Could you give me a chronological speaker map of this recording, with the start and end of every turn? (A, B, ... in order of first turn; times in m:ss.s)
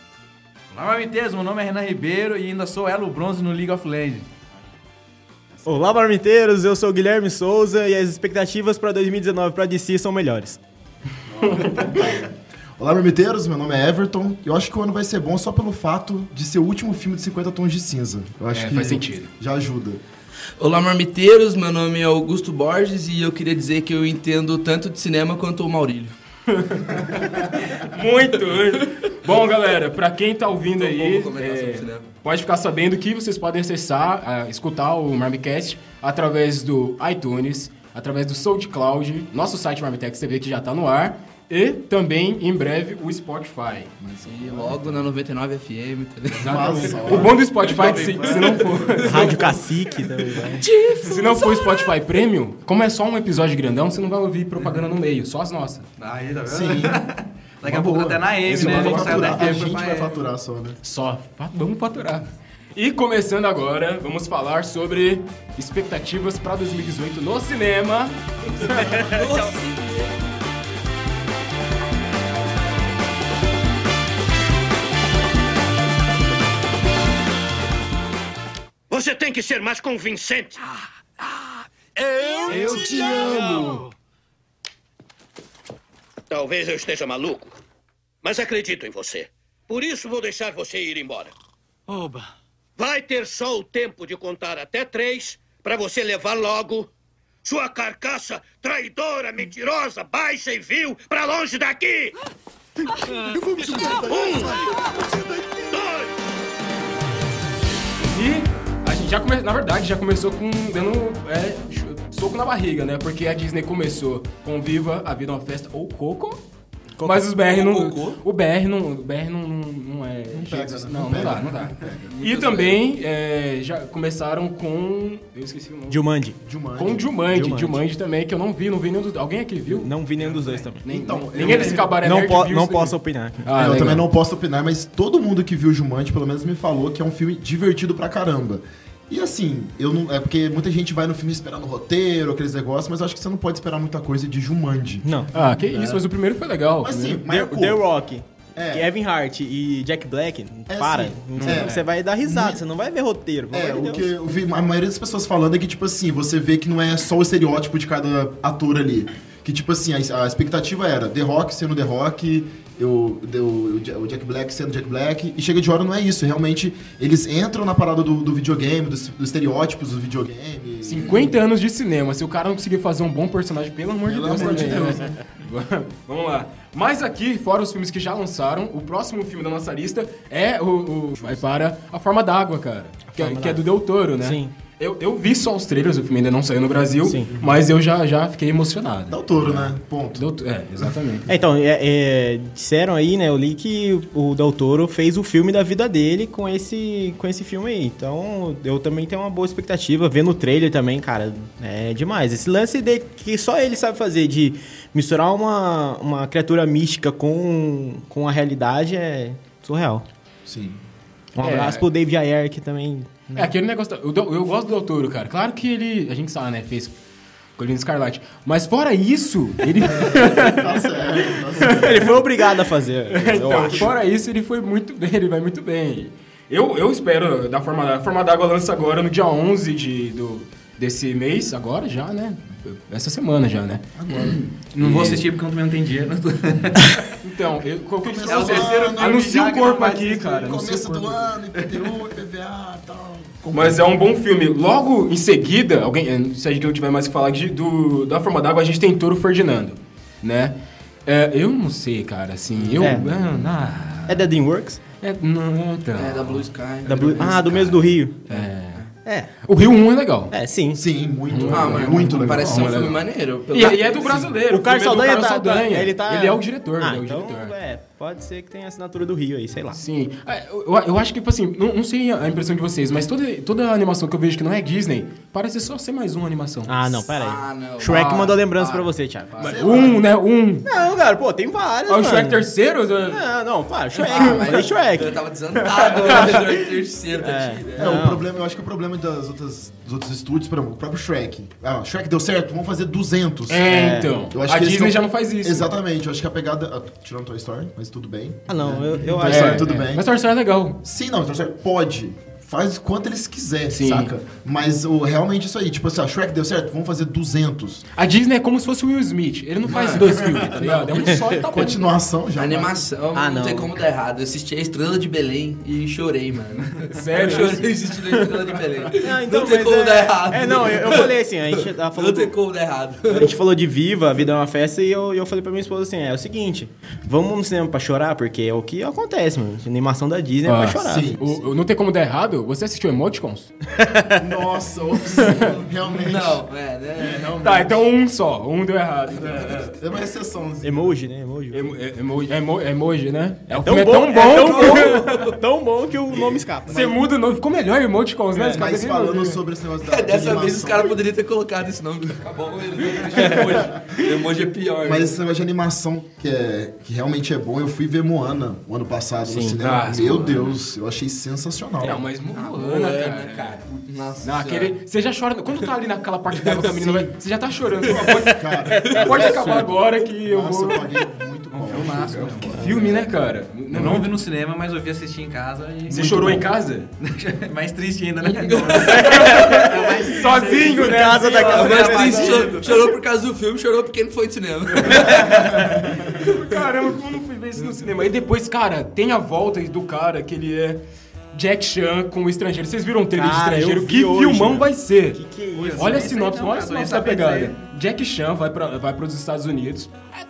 0:00.7-0:04.3 A
0:05.6-0:10.6 B
0:11.3-0:20.0 C
0:11.4-0:11.9 D
0:18.5-0:19.3 D
0:20.6-0:26.2 E
0:26.5-0:43.9 D
0:30.8-0:32.1 E
0:44.0-0:45.1 C
0:44.2-0:47.2 E
0:46.4-0:49.5 D
0:46.4-0:47.4 C
0:47.4-0:49.0 A
0:49.0-0:50.6 B
0:50.6-0:51.8 E
0:51.0-0:55.9 D
0:56.0-1:00.2 A
0:56.5-0:57.0 C
0:57.6-1:00.8 C
0:58.5-0:59.1 D
0:59.1-0:59.4 E
1:00.8-1:08.2 D
1:08.5-1:10.2 E
1:18.9-1:20.6 F
1:22.1-1:23.4 F
1:22.5-1:23.8 D
1:26.3-1:27.5 F
1:28.2-1:31.3 F
1:32.8-1:36.9 F
1:37.4-1:42.2 F
1:43.1-1:45.7 C
1:43.8-1:44.6 F
1:45.7-1:46.1 F
1:48.1-1:56.4 D
1:57.0-1:57.3 B
1:57.0-2:06.1 D
1:57.5-1:58.2 E
2:00.3-2:02.1 C
2:01.2-2:02.8 E
2:05.9-2:06.4 B
2:06.4-2:07.1 C
2:06.8-2:09.9 D
2:07.3-2:07.8 B
2:09.8-2:13.6 B
2:10.2-2:10.7 A
2:10.8-2:14.1 D
2:10.9-2:11.9 C
2:13.5-2:26.0 C
2:25.0-2:25.3 B
2:25.3-2:27.2 D
2:26.8-2:27.9 C
2:27.3-2:34.1 B
2:28.6-2:28.9 C
2:30.7-2:32.6 C
2:31.4-2:31.8 D
2:33.5-2:51.4 C
2:50.8-3:11.3 D
2:54.0-2:55.2 C
2:54.3-2:55.1 B
3:03.1-3:03.7 B
3:04.2-3:04.5 B
3:07.0-3:07.3 B
3:07.3-3:07.6 C
3:09.1-3:10.2 C
3:11.3-3:30.0 B
3:30.5-3:30.8 C
3:31.4-3:33.2 B
3:31.4-3:31.9 D
3:33.3-3:37.0 D
3:37.6-3:40.7 D
3:39.8-3:42.2 C
3:41.6-3:43.9 B
3:41.6-3:42.0 D
3:43.1-3:55.2 D
3:54.0-3:54.4 C
3:54.8-3:57.1 A
3:57.1-4:01.3 D
3:58.0-3:59.6 C
3:58.2-4:00.6 A
4:00.4-4:03.9 C
4:03.5-4:10.6 D
4:11.1-4:14.3 D
4:12.8-4:13.1 B
4:14.1-4:14.8 B
4:15.0-4:16.4 D
4:16.0-4:18.9 E
4:16.9-4:18.2 B
4:18.3-4:18.8 D
4:19.0-4:19.3 B
4:19.4-4:20.3 D
4:20.3-4:20.8 B
4:20.7-4:23.0 C
4:21.3-4:27.6 D
4:21.5-4:24.2 E
4:24.5-4:29.8 B
4:29.7-4:37.0 D
4:36.7-4:39.9 B
4:37.1-4:39.6 E
4:37.9-4:38.3 D
4:39.4-4:40.7 D
4:39.4-4:40.0 C
4:40.7-4:42.5 B
4:41.9-4:43.3 D
4:43.0-4:45.2 B
4:44.0-4:48.0 E
4:44.1-4:44.4 D
4:45.8-4:46.6 B
4:47.1-4:48.2 B
4:47.8-4:53.7 C
4:53.5-4:55.7 D
4:53.7-4:54.2 B
4:54.3-5:00.1 C
4:58.5-4:59.8 B
4:59.2-5:00.8 D
5:00.8-5:07.8 C
5:03.7-5:04.1 D
5:08.0-5:11.8 D
5:09.7-5:10.0 E
5:10.0-5:12.8 C
5:10.6-5:11.4 B
5:12.4-5:23.4 E
5:13.1-5:13.8 B
5:16.9-5:17.7 D
5:19.0-5:22.4 B
5:23.1-5:31.2 B
5:30.4-5:33.5 D
5:30.8-5:31.4 C
5:33.8-5:34.3 B
5:34.1-5:36.4 C
5:35.4-5:37.3 E
5:37.0-5:37.9 C
5:37.4-5:39.7 D
5:39.2-5:41.0 C
5:40.6-5:41.8 B
5:41.5-5:45.0 D
5:43.6-5:47.0 B
5:44.2-5:45.4 E
5:46.7-5:49.4 D
5:48.4-5:51.1 C
5:49.8-5:55.2 E
5:53.2-5:54.0 C
5:54.8-6:02.0 C
5:59.2-5:59.6 B
5:59.6-6:00.5 D
6:01.8-6:10.9 D
6:02.3-6:04.8 E
6:06.6-6:07.1 C
6:07.8-6:13.1 C
6:08.7-6:09.7 B
6:11.5-6:12.8 A
6:12.5-6:14.1 D
6:13.7-6:22.7 A
6:15.9-6:16.9 D
6:18.2-6:21.7 D
6:18.9-6:22.9 B
6:21.5-6:26.2 E
6:26.0-6:30.8 D
6:31.3-6:35.2 D
6:33.1-6:36.2 B
6:35.5-6:37.6 A
6:35.8-6:40.1 D